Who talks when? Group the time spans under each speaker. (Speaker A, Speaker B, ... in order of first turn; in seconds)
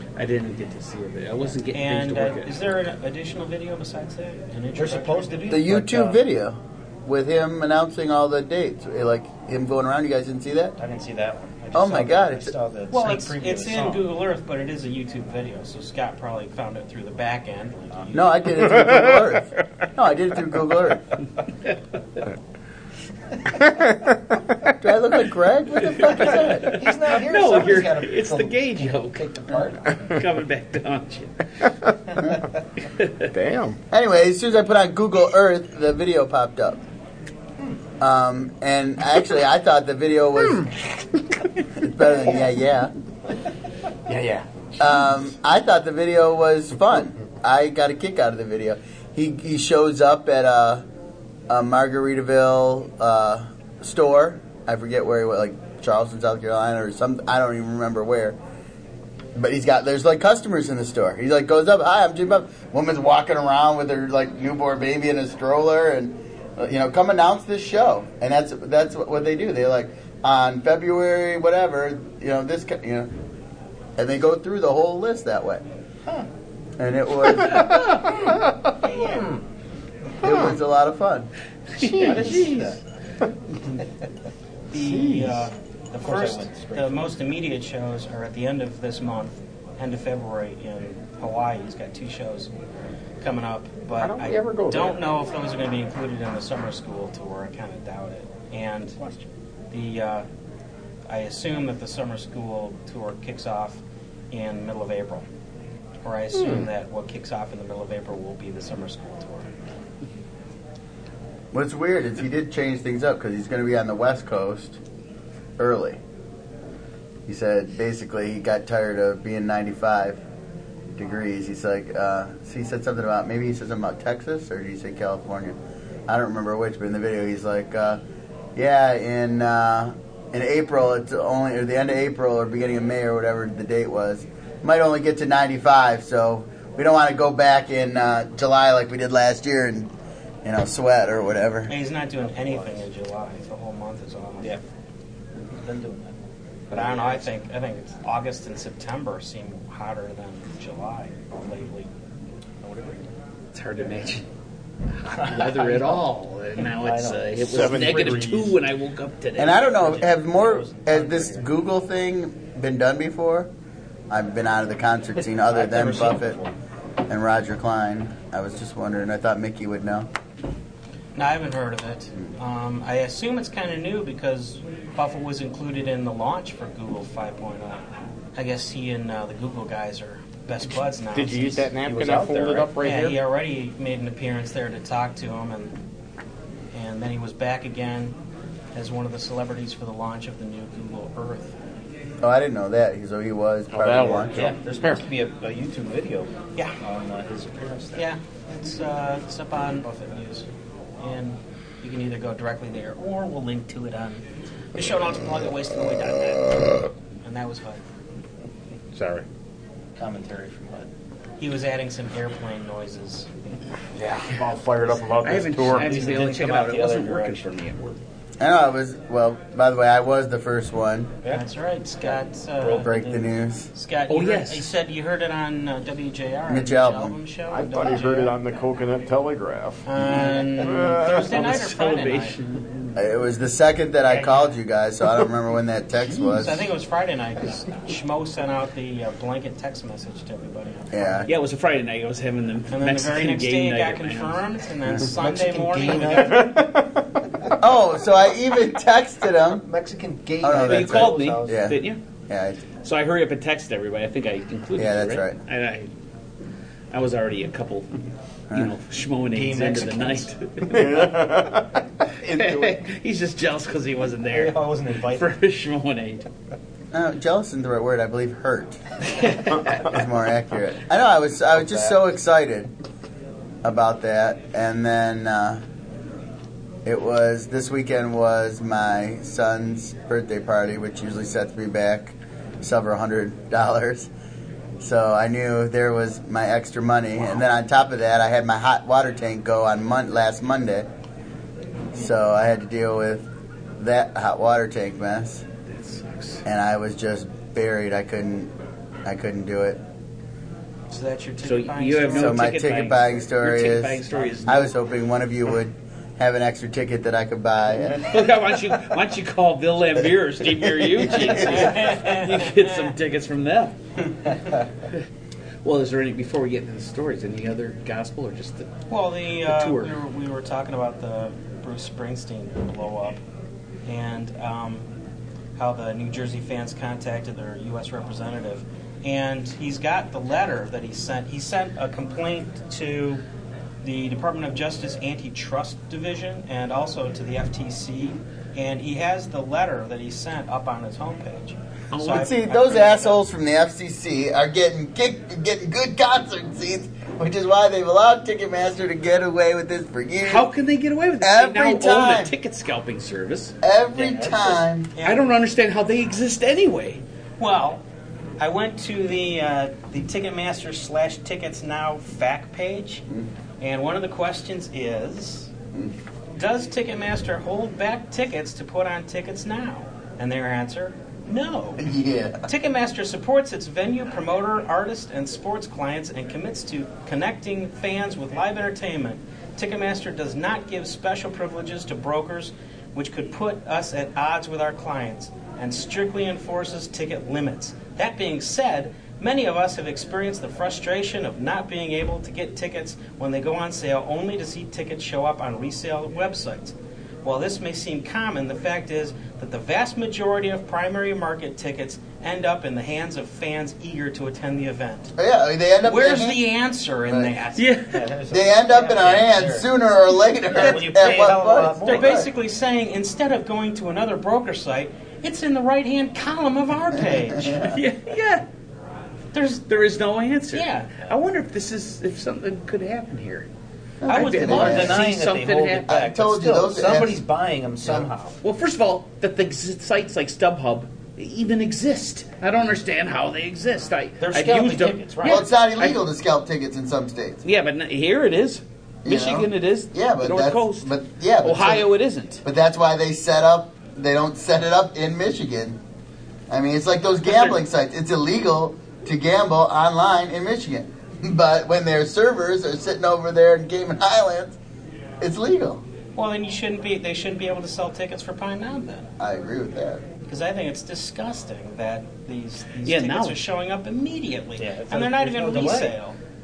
Speaker A: 0.2-2.5, 25.9-29.4, 30.0-31.4, 32.9-33.3, 81.8-82.8, 153.5-154.2, 154.9-159.7, 215.2-218.0, 224.1-224.7, 231.1-232.9, 241.2-244.4, 250.6-252.0, 252.8-255.9, 256.9-257.9, 258.5-261.3, 262.2-266.2, 269.2-269.7, 295.7-296.4, 301.4-304.7, 308.0-313.8, 315.6-318.8, 319.4-320.0, 341.9-342.3, 350.2-353.5, 355.0-357.0, 407.6-408.0, 417.6-418.4, 419.3-423.5, 424.1-426.0, 428.4-436.0, 437.4-442.4, 462.8-463.4
Speaker B: 1.7-5.5, 12.9-18.3, 78.8-79.4, 84.7-92.5, 93.2-99.0, 99.7-100.2, 101.1-103.8, 104.3-105.2, 106.0-109.5, 141.7-144.6, 146.7-151.9, 171.1-177.8, 178.3-181.7, 182.8-185.7, 186.7-188.1, 188.7-191.5, 197.9-200.4, 201.0-204.2, 204.7-207.8, 211.4-213.3, 221.3-222.9, 223.7-228.3, 229.8-232.3, 234.1-234.5, 236.3-241.3, 242.7-246.5, 300.9-302.5, 311.1-312.6, 318.9-323.2, 323.9-324.9, 325.6-333.2, 333.8-343.1, 354.9-355.2, 357.4-357.8, 358.4-363.0, 363.6-365.5, 366.3-371.9, 372.5-405.1, 405.8-407.8, 411.8-417.8, 420.5-421.0, 424.1-425.0, 456.2-459.1, 460.3-466.1
Speaker C: 4.7-6.2, 10.8-14.0, 26.7-30.0, 81.9-82.8, 86.0-87.1, 142.4-142.8, 145.5-146.1, 146.7-147.3, 152.6-153.0, 155.1-156.1, 156.7-157.7, 159.7-161.5, 165.2-166.5, 181.8-182.8, 194.3-198.0, 210.0-210.9, 215.6-217.6, 222.0-223.3, 227.9-228.3, 245.0-246.6, 249.6-251.7, 259.3-260.3, 264.3-265.3, 353.9-354.6, 407.9-409.7, 410.5-412.2, 424.4-428.4, 434.2-435.4, 464.6-465.9
Speaker D: 5.5-10.8, 11.7-12.5, 18.1-21.0, 24.8-26.8, 33.9-36.8, 38.0-40.7, 41.8-42.9, 44.8-50.8, 51.5-58.4, 59.4-73.1, 74.0-75.6, 76.8-78.1, 80.2-81.3, 111.5-114.8, 115.6-116.0, 117.3-120.2, 120.9-125.6, 126.1-128.0, 128.6-139.9, 140.4-141.7, 159.3-163.5, 164.1-166.4, 167.1-170.1, 192.2-194.5, 218.4-221.2, 222.8-223.7, 226.5-227.2, 232.9-236.7, 240.9-241.3, 247.6-249.6, 250.4-252.6, 254.8-255.4, 266.9-268.8, 269.7-272.7, 273.6-275.6, 276.8-284.1, 284.8-290.9, 291.9-293.3, 293.8-295.4, 296.4-298.5, 299.0-299.8, 302.1-308.1, 342.1-350.5, 351.2-352.3, 353.6-354.9, 371.8-372.5, 405.2-406.4, 408.3-412.3, 416.9-417.7, 424.0-425.1, 425.9-427.2, 435.2-437.4, 439.0-441.9, 442.4-445.8, 446.5-454.6, 455.2-455.8, 459.2-460.0
Speaker E: 23.6-24.1, 33.3-33.8, 44.1-44.4, 81.8-82.4, 84.7-85.4, 94.0-95.0, 106.4-106.7, 157.4-158.6, 181.1-183.2, 193.7-195.0, 208.9-209.2, 213.9-216.2, 227.5-229.9, 230.6-231.3, 246.2-247.0, 260.7-262.8